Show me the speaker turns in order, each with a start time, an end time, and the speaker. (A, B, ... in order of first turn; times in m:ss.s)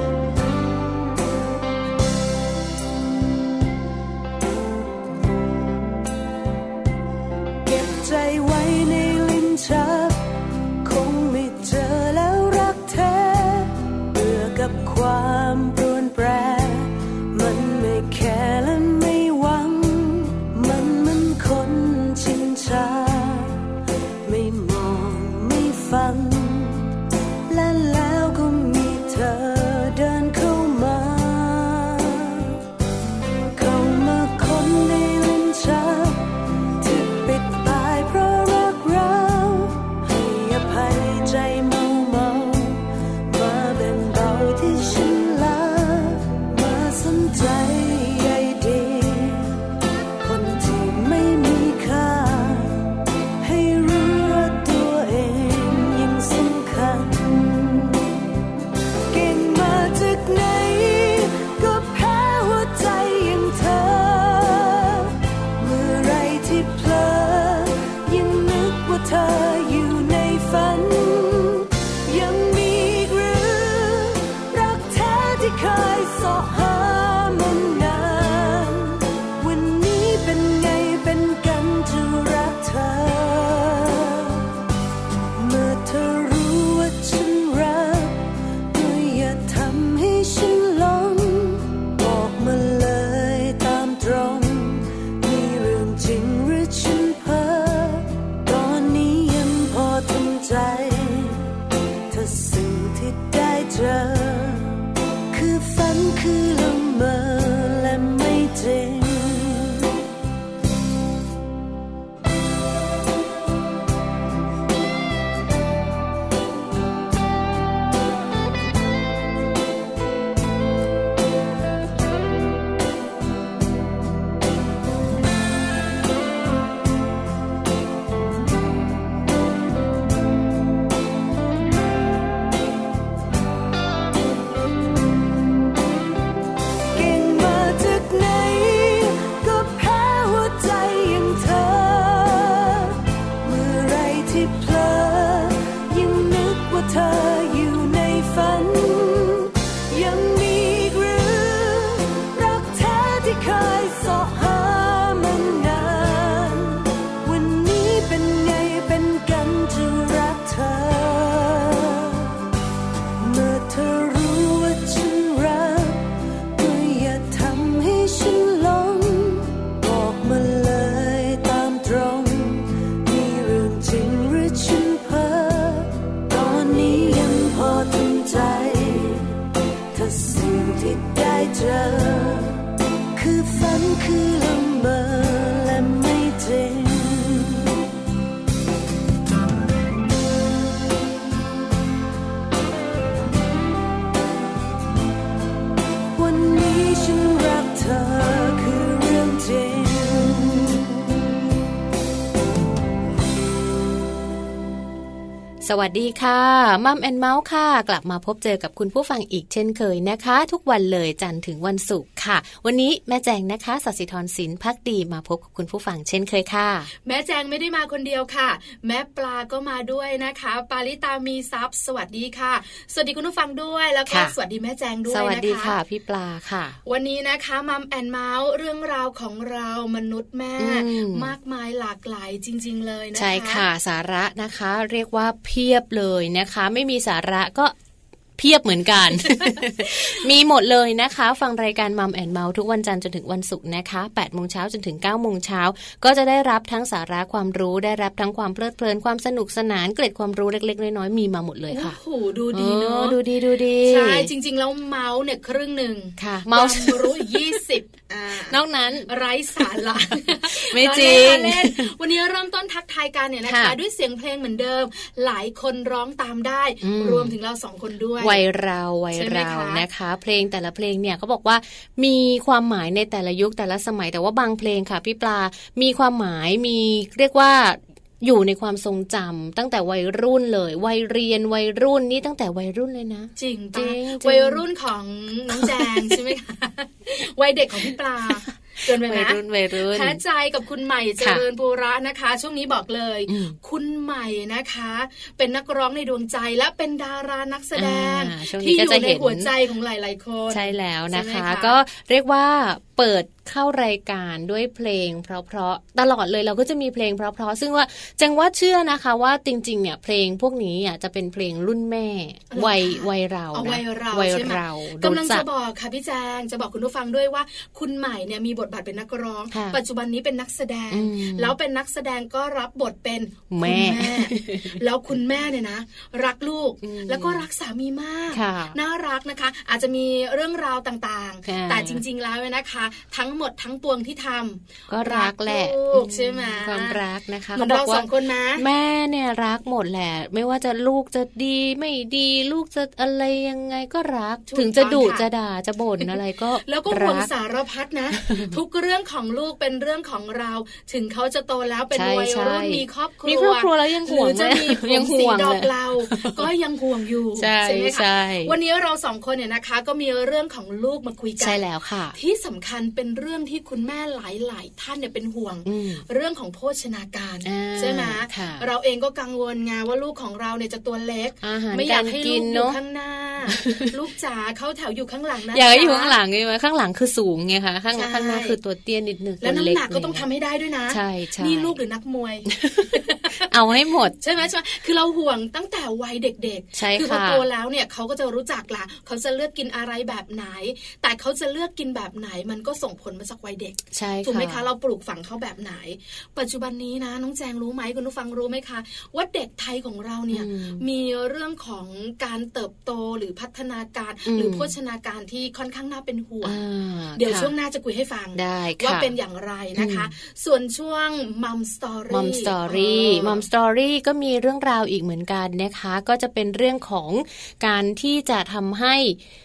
0:07.6-0:10.3 A
0:10.8-0:23.7 A
0:24.2-0:26.9 A
0:27.5-0:32.6 A
0:33.5-0:49.6 A
0:50.2-0:58.1 A
0:59.1-1:24.5 A
1:25.3-1:50.0 A
2:16.9-2:42.4 A
2:43.2-3:07.8 A
3:16.1-3:21.2 A
3:25.6-3:36.9 B
3:37.0-3:45.8 C
3:44.1-3:44.3 B
3:45.1-3:46.8 B
3:46.8-3:53.6 C
3:50.6-3:51.3 B
3:53.1-3:57.7 B
3:58.4-4:12.0 B
4:11.7-4:13.2 C
4:12.5-4:14.3 B
4:13.8-4:28.4 C
4:16.2-4:17.5 B
4:18.5-4:21.9 B
4:23.4-4:23.8 B
4:26.8-4:27.3 B
4:28.2-4:44.6 B
4:29.1-4:29.8 C
4:43.4-5:01.7 C
4:45.5-4:46.2 B
4:48.4-4:50.2 B
4:53.3-4:53.6 B
4:57.8-4:59.5 B
5:00.5-5:15.4 B
5:12.5-5:37.0 C
5:19.5-5:19.8 B
5:20.9-5:21.5 B
5:23.5-5:24.8 B
5:26.8-5:27.4 B
5:28.3-5:28.8 B
5:31.4-5:32.0 B
5:34.9-5:47.3 B
5:37.6-5:38.6 C
5:44.5-5:45.2 C
5:46.0-6:01.6 C
5:48.2-5:48.5 B
5:51.9-5:56.5 B
5:57.4-5:58.5 B
6:01.4-6:02.2 B
6:02.1-6:16.2 C
6:05.6-6:06.0 B
6:07.4-6:08.7 B
6:11.4-6:12.8 B
6:13.5-6:13.9 B
6:15.5-6:20.2 B
6:17.9-6:18.6 C
6:19.4-6:23.4 C
6:20.9-6:21.8 B
6:22.5-6:24.2 B
6:24.2-6:46.6 C
6:26.7-6:27.4 B
6:33.9-6:34.6 B
6:40.3-6:40.8 B
6:44.2-6:44.7 B
6:46.4-6:47.5 B
6:47.2-6:53.4 C
6:48.3-6:49.1 B
6:49.8-6:50.1 B
6:52.1-6:59.2 B